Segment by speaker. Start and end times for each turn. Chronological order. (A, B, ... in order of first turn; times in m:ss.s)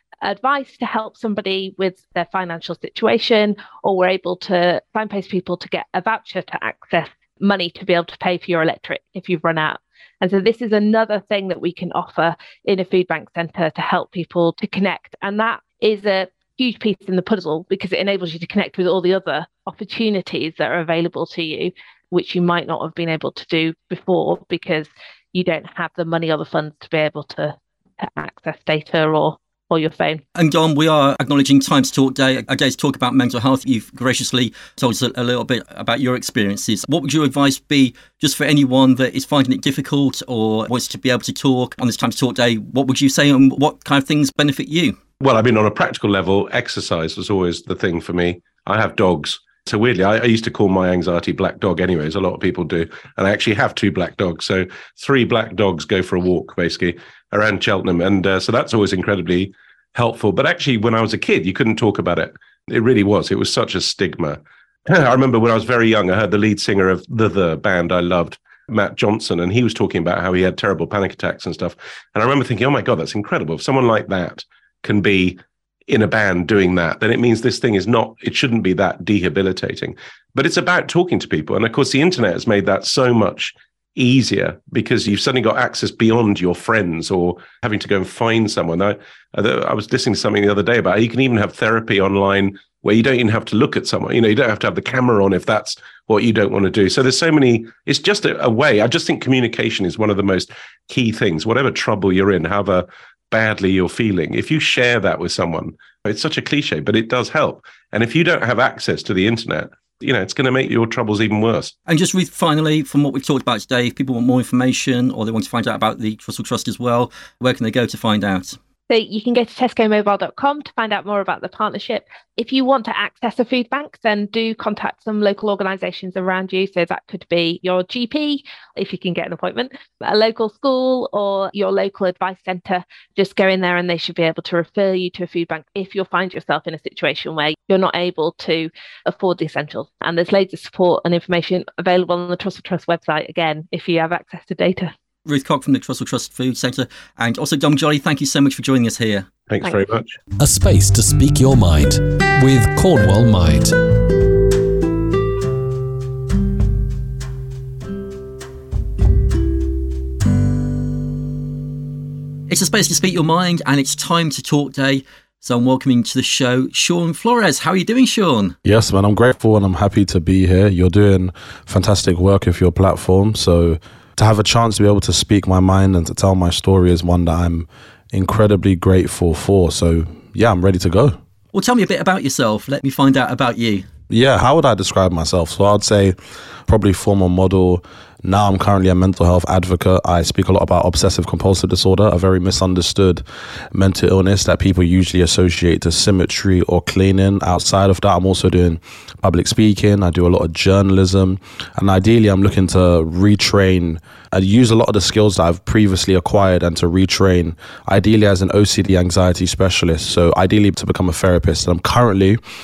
0:00.2-0:30.2 A
0:30.4-0:45.0 B
0:45.2-1:51.7 C
1:51.9-1:58.6 B
1:58.9-2:24.9 A
2:25.3-2:29.3 B
2:29.5-2:30.2 C
2:30.4-2:33.8 D
2:42.5-2:48.6 B
2:48.6-3:01.2 E
3:01.5-3:03.9 B
3:04.1-3:06.2 E
3:06.7-3:32.4 E